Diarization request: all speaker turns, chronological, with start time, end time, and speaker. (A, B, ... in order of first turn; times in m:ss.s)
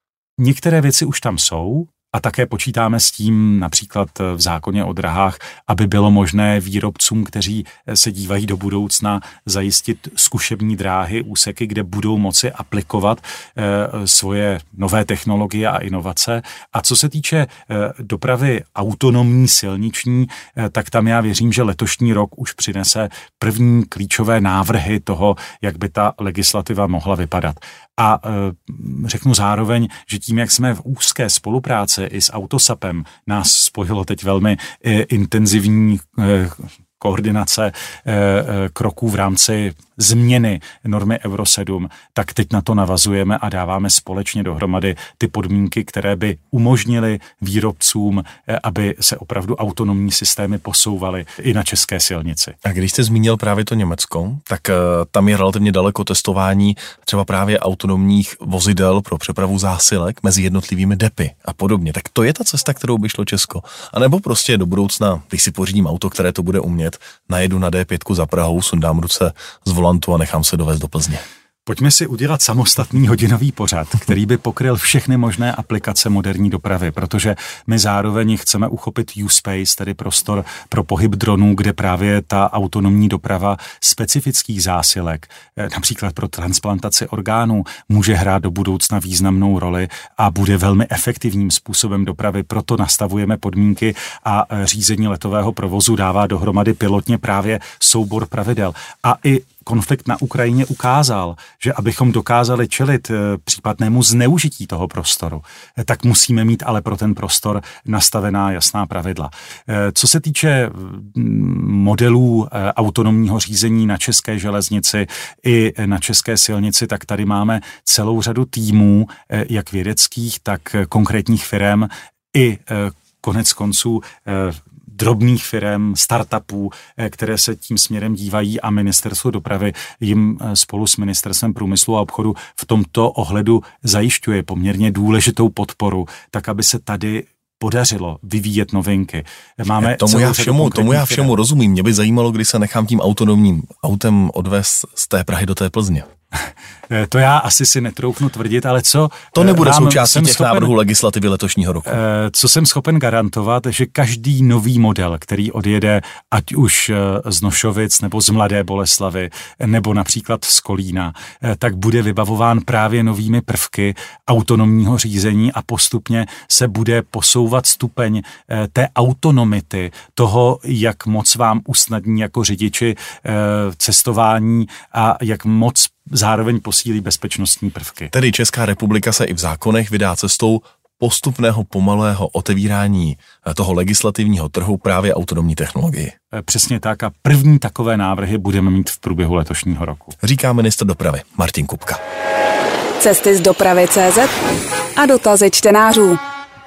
0:00.4-0:52.6 A
0:52.6-1:11.2 B
1:11.6-2:21.3 A
2:19.8-2:26.1 B
2:26.9-2:30.7 A
2:29.3-2:32.0 B
2:31.9-2:58.1 A
2:58.1-3:06.1 B
3:06.3-3:10.1 A
3:10.2-3:12.0 B
3:13.0-3:14.4 C
3:15.0-3:16.2 C